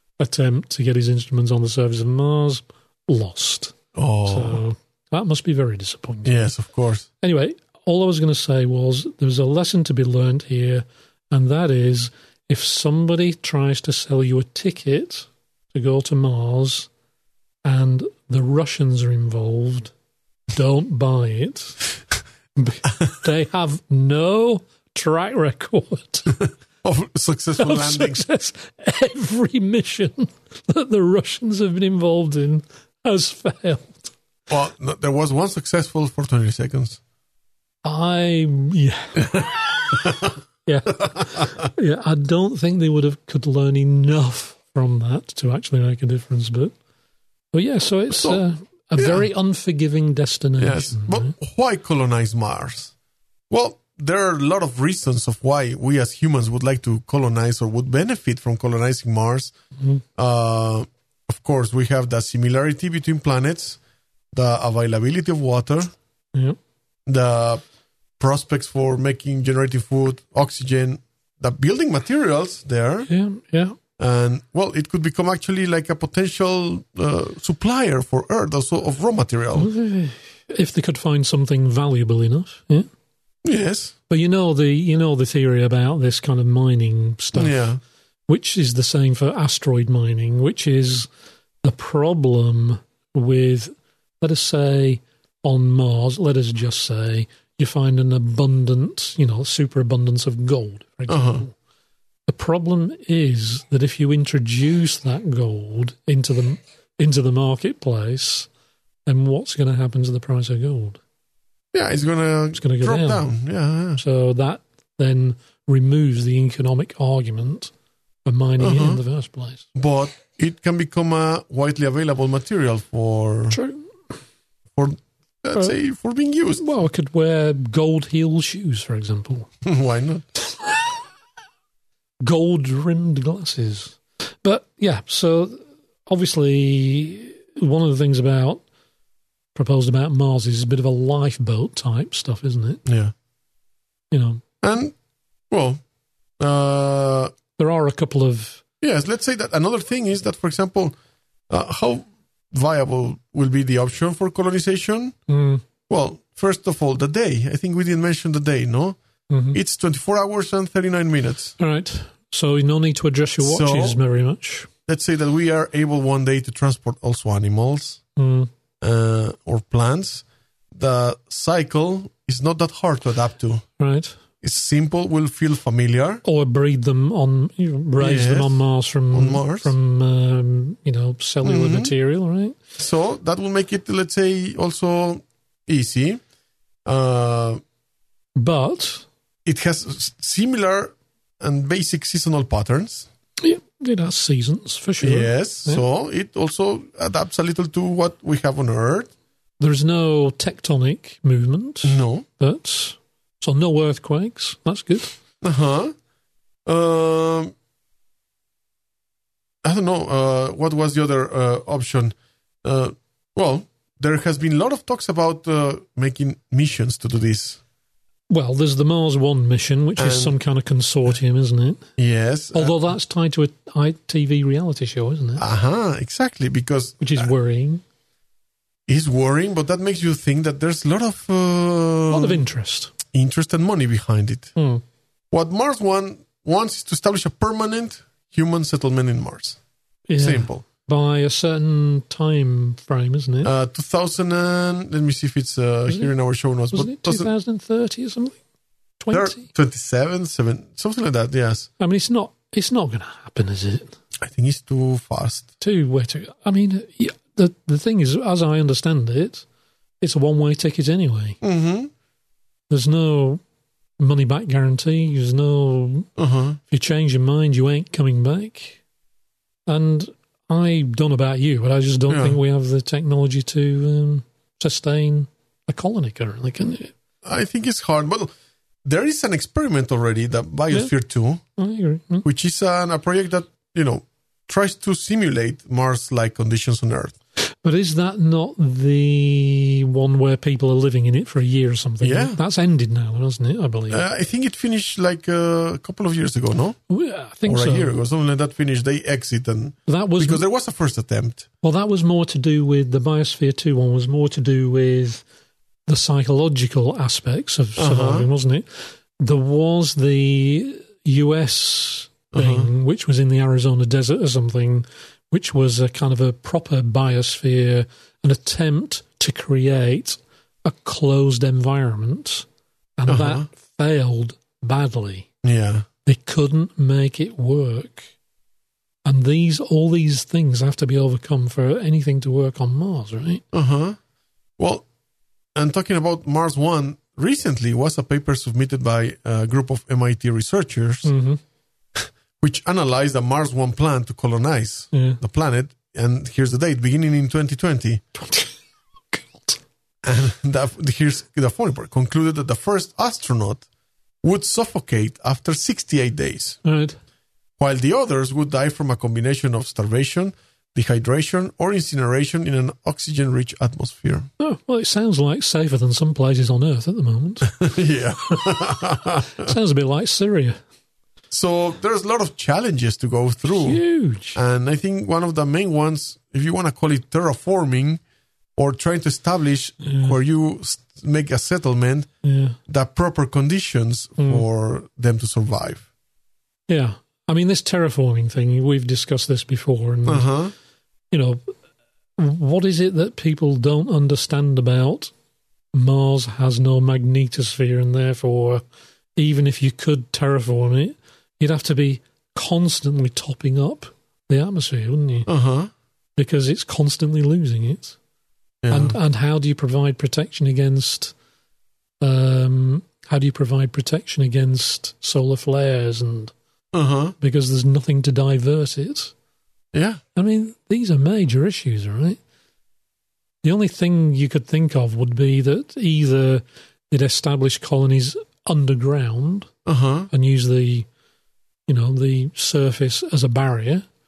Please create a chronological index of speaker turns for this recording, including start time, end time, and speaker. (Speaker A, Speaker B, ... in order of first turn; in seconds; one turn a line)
Speaker A: 0.2-6.5
Speaker B: 3.9-4.6
Speaker B: 6.2-7.1
Speaker A: 7.2-16.9
Speaker A: 17.6-19.9
Speaker A: 20.5-21.8
Speaker A: 22.6-26.4
Speaker B: 26.8-28.2
Speaker A: 27.6-34.1
Speaker B: 34.5-37.0
Speaker A: 37.8-39.9
Speaker B: 39.1-40.3
Speaker A: 40.6-46.7
Speaker B: 41.0-41.3
Speaker A: 47.5-51.3
Speaker B: 48.1-48.4
Speaker B: 49.0-49.2
Speaker B: 50.6-52.9
Speaker B: 53.5-59.5
Speaker B: 60.1-63.8
Speaker B: 64.3-65.9
Speaker B: 67.0-67.6
Speaker B: 68.2-73.1
Speaker A: 73.1-73.8
Speaker B: 74.0-79.7
Speaker A: 79.5-82.9
Speaker B: 83.4-83.9
Speaker A: 84.1-87.6
Speaker B: 87.3-87.8
Speaker A: 88.3-91.1
Speaker A: 91.6-101.5
Speaker B: 101.1-101.4
Speaker A: 102.3-108.5
Speaker A: 109.1-111.0
Speaker B: 111.7-114.0
Speaker A: 112.5-113.2
Speaker A: 114.0-117.7
Speaker A: 118.2-119.7
Speaker B: 118.6-119.0
Speaker B: 119.7-123.6
Speaker A: 123.5-123.9
Speaker B: 124.8-126.6
Speaker A: 126.6-129.5
Speaker B: 129.6-130.3
Speaker A: 132.2-138.6
Speaker A: 139.5-142.8
Speaker B: 142.8-143.1
Speaker A: 144.1-144.4
Speaker B: 144.6-144.9
Speaker B: 145.5-145.8
Speaker B: 146.4-147.3
Speaker A: 147.6-148.6
Speaker B: 148.8-150.9
Speaker B: 151.5-155.1
Speaker A: 155.3-155.6
Speaker B: 155.9-159.0
Speaker A: 159.3-159.6
Speaker B: 159.5-161.5
Speaker A: 161.6-164.7
Speaker B: 163.4-164.0
Speaker B: 164.9-168.0
Speaker A: 168.2-168.5
Speaker B: 168.8-173.6
Speaker A: 173.8-174.2
Speaker B: 174.4-176.2
Speaker A: 176.2-182.6
Speaker B: 178.0-179.7
Speaker B: 181.4-181.9
Speaker B: 182.8-186.2
Speaker B: 186.8-187.6
Speaker A: 188.3-189.1
Speaker B: 189.4-193.1
Speaker A: 193.4-195.8
Speaker B: 195.0-199.1
Speaker A: 199.6-205.1
Speaker B: 201.8-202.2
Speaker B: 205.4-205.9
Speaker B: 206.7-207.5
Speaker B: 209.6-217.6
Speaker A: 218.3-221.8
Speaker B: 220.0-220.3
Speaker B: 222.0-222.8
Speaker A: 222.5-225.4
Speaker B: 225.4-227.3
Speaker A: 227.0-227.8
Speaker B: 228.9-232.4
Speaker A: 232.1-232.9
Speaker B: 233.1-234.5
Speaker A: 234.6-234.8
Speaker B: 235.3-239.6
Speaker A: 240.1-243.5
Speaker B: 240.2-240.6
Speaker B: 243.4-247.3
Speaker A: 246.7-248.4
Speaker A: 249.0-249.5
Speaker B: 249.1-251.7
Speaker A: 251.8-253.9
Speaker B: 254.2-255.5
Speaker A: 255.6-259.4
Speaker A: 260.0-261.4
Speaker B: 261.4-261.9
Speaker A: 262.7-263.4
Speaker A: 264.0-266.1
Speaker B: 266.2-266.6
Speaker A: 266.7-268.8
Speaker A: 269.7-276.9
Speaker B: 272.1-272.4
Speaker B: 277.2-278.3
Speaker B: 278.8-281.4
Speaker A: 281.6-282.2
Speaker B: 282.2-287.1
Speaker A: 287.6-294.0
Speaker B: 292.0-292.4
Speaker B: 293.9-296.8
Speaker A: 296.9-297.9
Speaker B: 297.4-301.5
Speaker A: 299.9-300.4
Speaker A: 301.6-305.2
Speaker A: 305.9-308.6
Speaker B: 307.8-308.3
Speaker A: 309.2-322.4
Speaker B: 312.3-312.7
Speaker A: 323.0-325.3
Speaker B: 323.1-323.5
Speaker B: 325.4-325.8
Speaker A: 326.0-328.1
Speaker A: 329.0-333.4
Speaker B: 333.5-334.0
Speaker B: 334.6-334.9
Speaker B: 335.5-341.1
Speaker A: 341.0-341.4
Speaker B: 341.9-348.0
Speaker A: 344.9-345.2
Speaker A: 348.1-348.5
Speaker A: 349.1-349.6
Speaker B: 350.0-353.6
Speaker B: 354.2-356.6
Speaker A: 356.6-357.0
Speaker B: 357.6-364.3
Speaker A: 364.4-367.6
Speaker B: 367.5-369.5
Speaker A: 369.4-370.6
Speaker B: 371.3-373.8
Speaker A: 373.5-374.4
Speaker B: 374.3-378.0
Speaker B: 378.6-382.1
Speaker A: 379.8-380.1
Speaker A: 382.2-382.6
Speaker B: 382.7-385.8
Speaker A: 384.2-384.4
Speaker A: 386.7-390.3
Speaker B: 390.1-390.5
Speaker A: 391.1-391.5
Speaker A: 392.2-395.1
Speaker A: 395.7-398.6
Speaker A: 399.1-405.3
Speaker B: 405.3-405.7
Speaker A: 406.2-408.0
Speaker B: 408.6-409.0
Speaker A: 408.7-411.1
Speaker A: 412.0-416.3
Speaker B: 416.7-417.1
Speaker A: 417.2-419.1
Speaker B: 419.7-420.0
Speaker A: 420.1-422.2
Speaker A: 423.4-429.5
Speaker B: 429.6-430.1
Speaker A: 430.1-430.9
Speaker A: 431.7-433.8